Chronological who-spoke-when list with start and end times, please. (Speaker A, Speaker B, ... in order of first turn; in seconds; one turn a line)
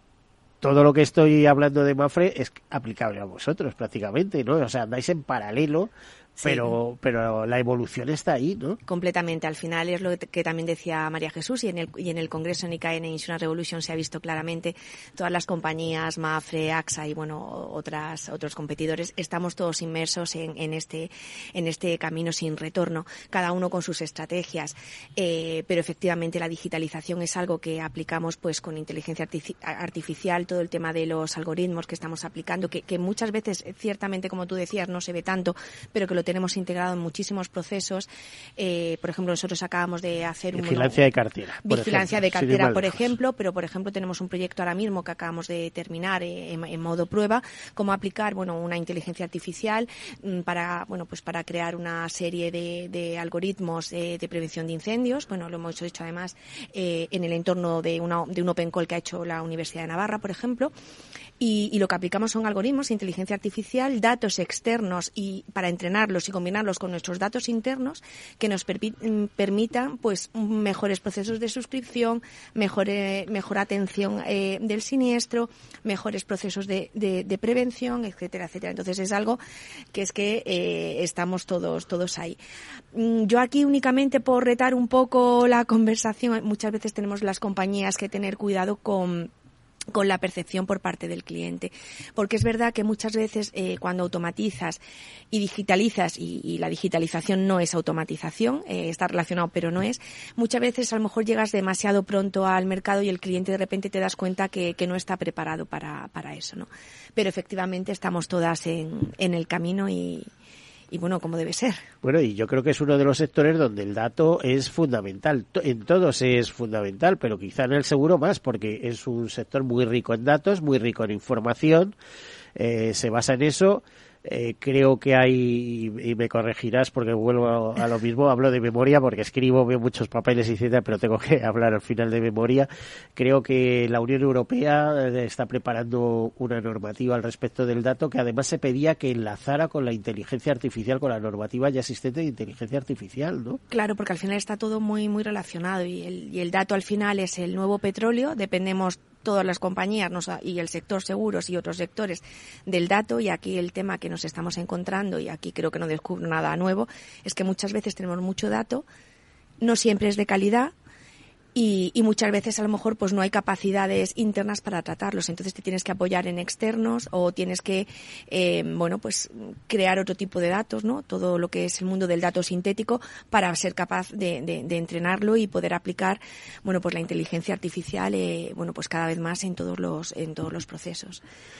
Speaker A: 0.6-5.9
Speaker B: 6.4-6.8
Speaker A: 6.4-8.8
Speaker B: 8.9-41.0
Speaker A: 40.5-43.1
Speaker B: 41.6-60.7
Speaker B: 61.4-79.4
Speaker B: 79.9-82.4
Speaker B: 82.9-89.3
Speaker B: 89.9-94.8
Speaker B: 95.3-110.3
Speaker B: 110.9-111.8
Speaker A: 112.0-121.9
Speaker A: 122.5-143.6
Speaker B: 143.7-158.8
Speaker B: 159.6-160.7
Speaker B: 161.5-181.2